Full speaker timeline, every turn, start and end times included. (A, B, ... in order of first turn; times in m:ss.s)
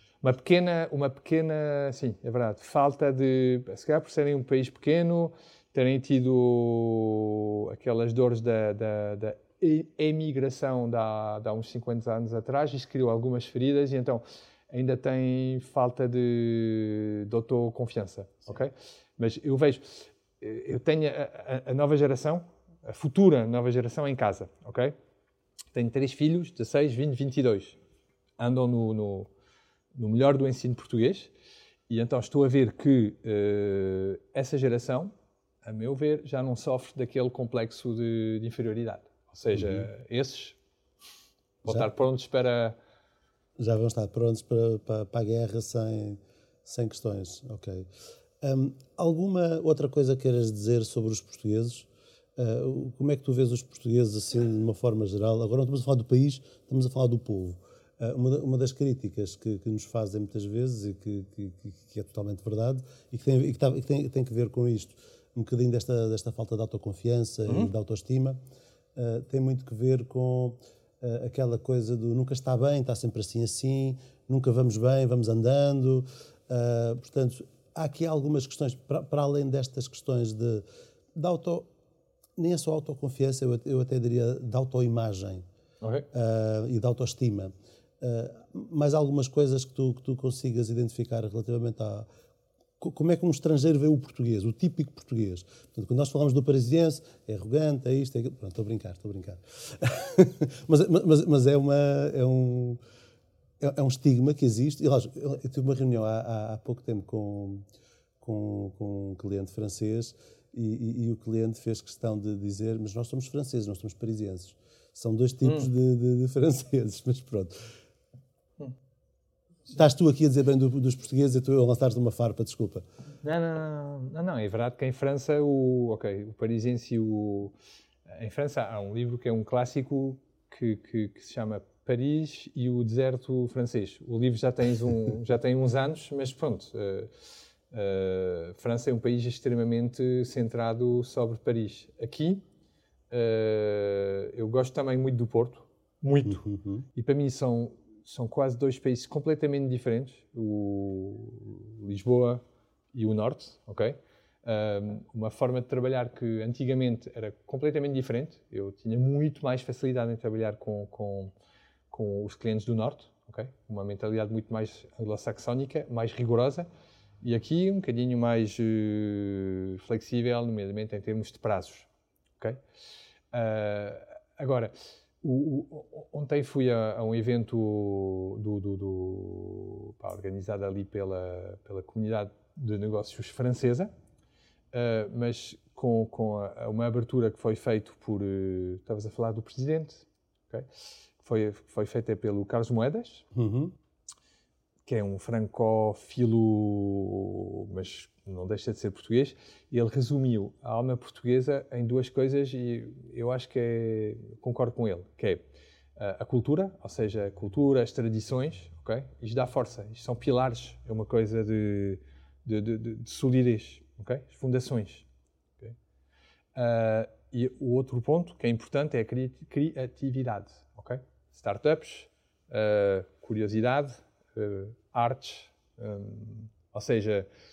0:00.2-0:24.9 A
0:25.7-0:27.8 A
0:28.4-0:29.3 A
0:29.9-0:31.3 A
0:31.9-0:35.1 A
0:35.6-0:40.6 A
0:39.5-0:39.9 B
0:41.6-0:42.8 A
0:43.6-0:47.9 B
0:48.4-1:08.4 B
1:09.0-1:20.6 B
1:21.1-1:21.7 B
1:22.4-1:25.4 B
1:26.1-1:32.1 B
1:32.8-1:42.8 B
1:43.6-1:47.6 B
1:48.2-1:57.7 B
1:59.7-2:02.8 B
2:03.2-2:07.5 A
2:08.1-2:17.1 A
2:17.7-2:22.4 A
2:23.1-2:32.4 A
2:26.2-2:26.8 B
2:32.9-2:41.3 A
2:41.9-2:46.7 A
2:47.2-2:51.9 A
2:53.3-3:03.9 A
3:04.7-3:10.7 A
3:11.2-3:13.3 A
3:13.3-3:13.7 B
3:14.8-3:25.4 A
3:26.0-3:35.1 A
3:36.5-3:47.3 A